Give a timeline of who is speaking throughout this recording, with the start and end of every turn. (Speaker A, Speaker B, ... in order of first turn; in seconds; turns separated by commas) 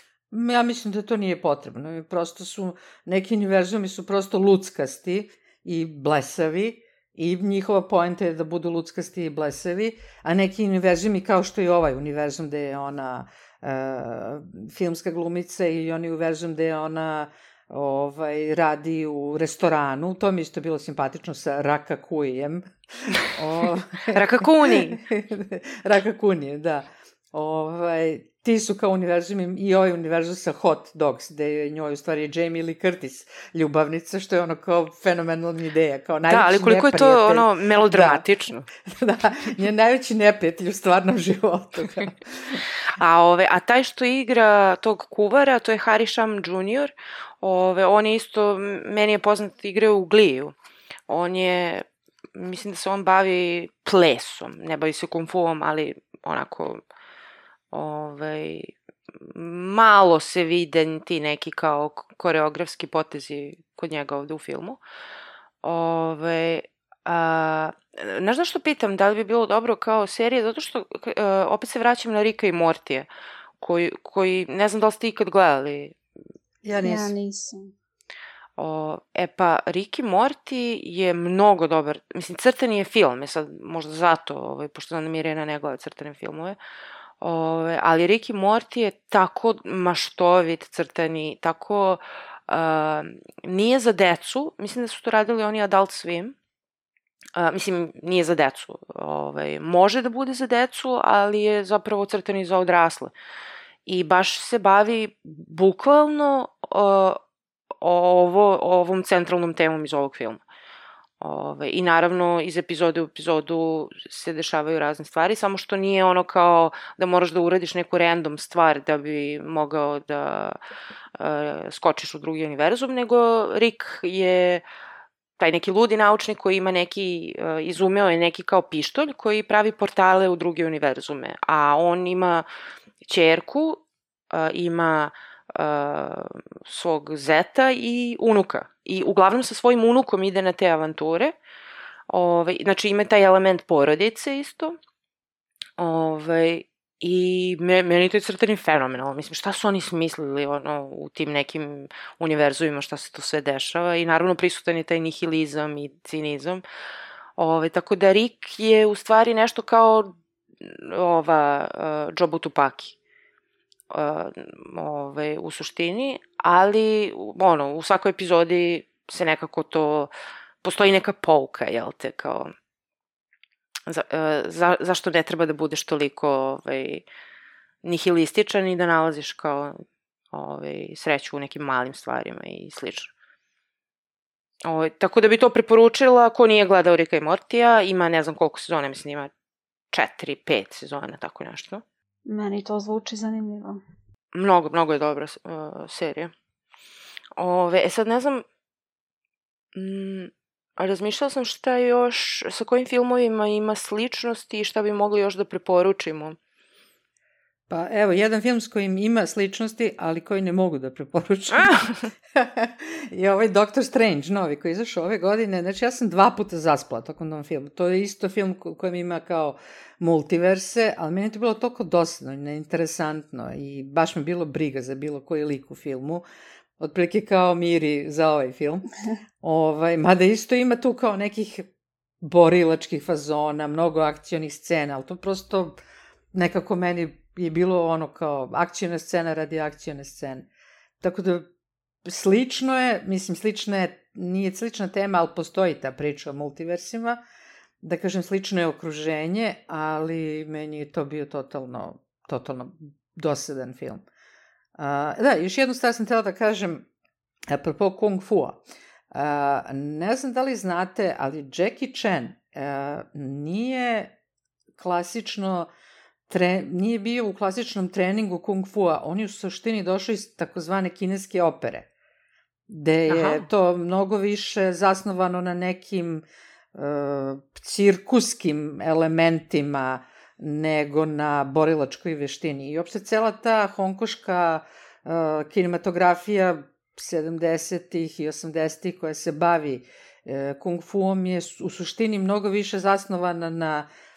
Speaker A: 0.3-38.2, Speaker B: 24.1-25.0, Speaker B: 36.3-38.7, Speaker A: 38.8-42.6, Speaker B: 42.9-50.5, Speaker B: 51.1-56.8, Speaker B: 57.7-64.8, Speaker B: 65.6-73.1, Speaker B: 73.6-76.0, Speaker A: 76.6-77.1, Speaker C: 76.8-77.7, Speaker B: 78.6-86.6, Speaker B: 87.2-96.3, Speaker B: 97.4-103.1, Speaker B: 103.9-107.2, Speaker B: 107.8-110.4, Speaker B: 111.2-120.6, Speaker B: 121.2-124.6, Speaker B: 125.4-132.5, Speaker B: 133.0-141.4, Speaker B: 142.1-144.8, Speaker B: 145.8-156.6, Speaker B: 157.4-163.0, Speaker B: 163.9-170.1, Speaker B: 170.6-172.5, Speaker B: 173.9-177.1, Speaker B: 177.8-179.8, Speaker B: 180.3-183.1, Speaker B: 184.7-189.3, Speaker B: 189.9-191.8, Speaker C: 192.3-193.8, Speaker B: 194.3-196.3, Speaker B: 197.4-198.4, Speaker B: 199.8-206.4, Speaker A: 207.7-211.8, Speaker B: 211.5-212.1, Speaker A: 212.3-226.2, Speaker A: 226.8-228.9, Speaker A: 229.4-231.7, Speaker A: 232.2-235.8, Speaker A: 236.3-240.5, Speaker A: 241.0-241.5, Speaker A: 242.1-247.2, Speaker A: 247.8-254.1, Speaker A: 254.8-256.9, Speaker A: 257.5-264.2, Speaker A: 264.8-265.7, Speaker A: 266.3-271.9, Speaker A: 272.7-293.9, Speaker B: 273.1-273.5